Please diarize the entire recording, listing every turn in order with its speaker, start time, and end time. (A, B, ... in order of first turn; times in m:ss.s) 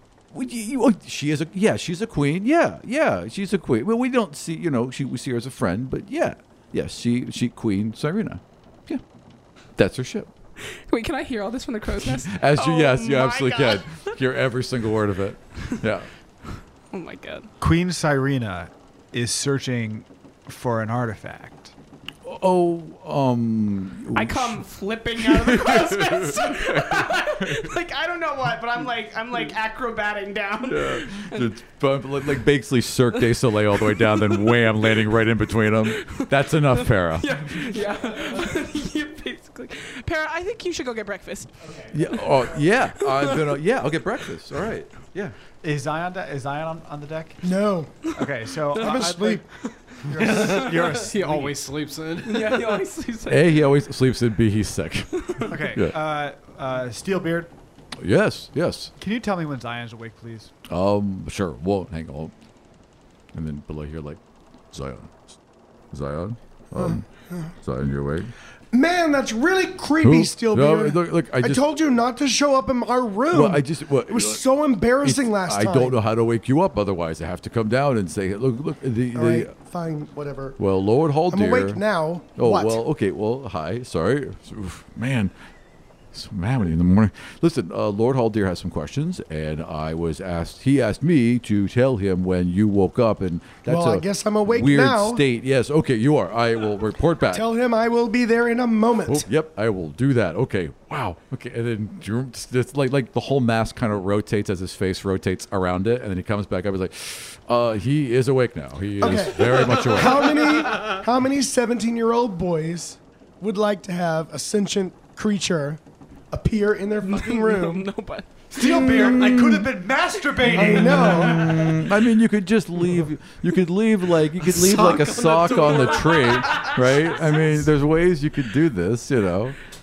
0:00.3-0:09.0 A
0:09.8-0:10.3 A
0:10.9-0:14.2 B
0:12.0-0:16.1 A
0:16.9-0:17.5 B
0:17.6-0:21.7 C
0:22.2-0:27.7 A
0:24.1-0:31.5 B
0:30.7-0:37.6 A
0:33.7-0:34.7 B
0:35.9-0:42.3 B
0:41.6-0:41.9 D
0:41.9-0:45.4 A
0:42.9-0:43.5 B
0:45.6-0:47.5 C
0:47.4-0:48.0 E
0:48.1-0:49.4 C
0:48.7-0:49.4 E
0:48.8-0:49.0 B
0:49.6-0:50.9 B
0:50.0-0:51.6 C
0:50.1-0:52.8 D
0:52.2-0:53.6 B
0:53.3-0:55.9 A
0:55.2-0:55.6 B
0:55.4-0:57.5 C
0:58.0-0:58.9 A
0:59.0-1:00.5 C
1:00.7-1:02.3 A
1:03.3-1:04.2 A
1:04.7-1:05.1 A
1:05.9-1:07.0 A
1:06.7-1:07.5 E
1:07.6-1:08.3 A
1:08.7-1:16.0 E
1:10.0-1:11.6 A
1:13.3-1:14.4 A
1:15.0-1:19.5 A
1:19.1-1:20.6 E
1:20.6-1:21.8 A
1:21.3-1:22.8 E
1:22.4-1:25.3 A
1:26.1-1:37.4 A
1:33.6-1:35.2 E
1:37.3-1:39.3 E
1:39.1-1:50.4 A
1:49.0-1:55.8 E
1:56.3-1:57.9 E
1:57.0-1:58.4 B
1:58.5-2:01.8 C
1:58.6-1:59.7 A
2:00.5-2:01.7 E
2:00.5-2:09.6 A
2:04.5-2:05.8 D
2:04.8-2:07.7 B